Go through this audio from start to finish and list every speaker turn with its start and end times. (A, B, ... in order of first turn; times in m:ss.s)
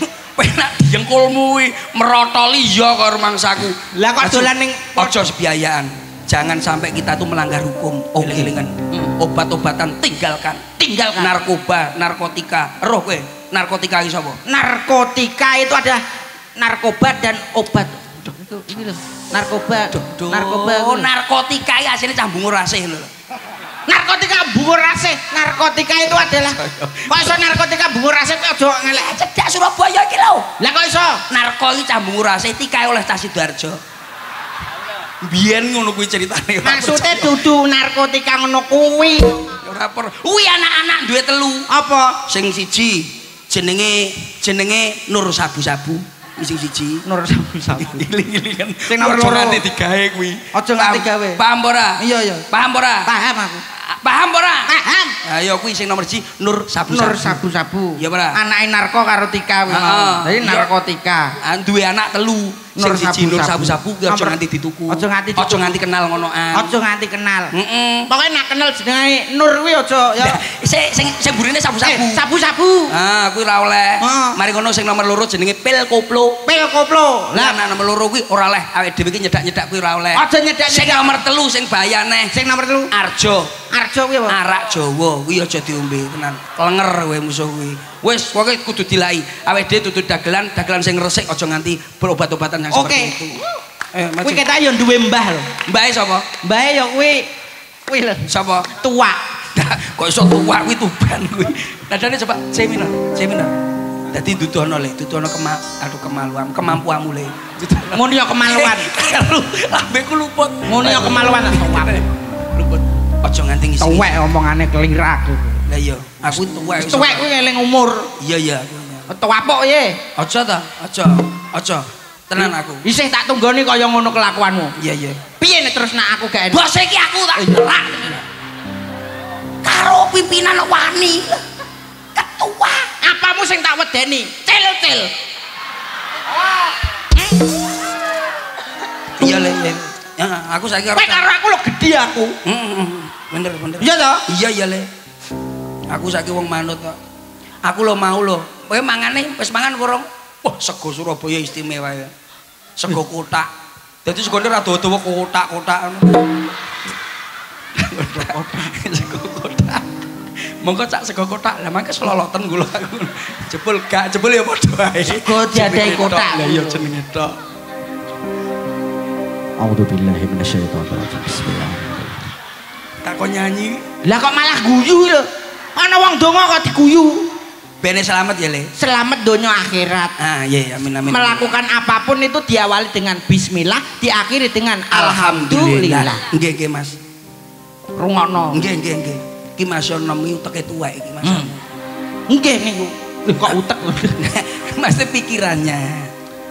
0:00.4-0:14.4 A
0:04.0-0:05.2 B
0:08.2-0:09.1 B
0:10.8-0:11.3 B
0:14.5-0:16.0 B
0:16.6-0:21.1 B
0:19.9-0:23.1 A
0:23.9-0:26.6 B
0:26.5-0:27.4 A
0:27.1-0:29.1 B
0:28.9-0:30.5 A
0:30.6-0:31.2 B
0:31.3-0:33.8 A
0:35.2-0:37.4 A
0:36.6-0:39.4 B
0:39.6-0:41.7 A
0:41.7-0:42.2 B
0:42.3-0:47.0 A
0:47.1-0:48.1 B
0:47.7-0:53.1 A
0:48.9-0:49.6 B
0:50.5-0:51.4 B
0:52.0-0:52.4 B
0:53.1-0:53.6 B
0:53.9-0:54.7 A
0:54.7-0:55.2 B
0:55.2-0:57.4 A
0:56.9-1:01.3 B
0:58.0-0:58.4 A
0:59.7-1:00.7 A
1:01.4-1:06.7 A
1:02.8-1:04.4 B
1:04.9-1:05.7 B
1:06.5-1:07.5 B
1:07.5-1:08.1 A
1:08.1-1:10.4 B
1:10.2-1:12.2 A
1:11.8-1:12.9 B
1:12.9-1:16.4 A
1:14.0-1:14.4 B
1:16.4-1:17.6 B
1:17.3-1:22.4 A
1:20.1-1:21.2 B
1:22.3-1:22.9 B
1:22.9-1:23.6 A
1:23.7-1:24.4 B
1:24.3-1:33.4 A
1:32.7-1:33.2 B
1:33.9-1:34.4 A
1:34.2-1:35.5 B
1:35.7-1:36.3 A
1:36.4-1:37.3 B
1:37.9-1:39.2 B
1:38.3-1:38.7 A
1:39.6-1:43.5 A
1:44.1-1:54.1 A
1:47.9-1:48.9 B
1:50.7-1:52.0 B
1:53.8-1:55.6 B
1:55.7-1:57.2 A
1:56.8-1:58.1 B
1:58.2-1:59.1 A
1:59.1-2:00.0 B
2:00.2-2:02.8 A
2:02.8-2:04.7 B
2:04.8-2:05.2 A
2:05.4-2:06.7 B
2:06.5-2:08.2 A
2:07.4-2:07.7 B
2:09.6-2:11.4 A
2:12.2-2:12.9 A
2:13.0-2:15.1 B
2:19.2-2:21.3 A
2:19.2-2:19.5 B
2:21.0-2:22.4 B
2:22.4-2:24.9 A
2:23.8-2:24.2 B
2:25.9-2:27.0 A
2:27.6-2:32.1 A
2:32.8-2:33.5 A
2:34.0-2:36.3 A
2:37.8-2:39.9 A
2:38.2-2:38.7 B
2:40.6-2:47.4 A
2:45.0-2:46.8 B
2:49.6-2:52.2 C
2:53.0-2:53.8 A
2:54.0-2:57.3 B
2:57.8-2:58.7 A
2:58.8-3:00.2 B
3:00.2-3:01.5 A
3:01.1-3:06.2 B
3:04.9-3:07.0 A
3:08.0-3:08.6 B
3:08.5-3:11.6 A
3:11.2-3:11.5 B
3:12.3-3:14.2 B
3:14.2-3:16.1 A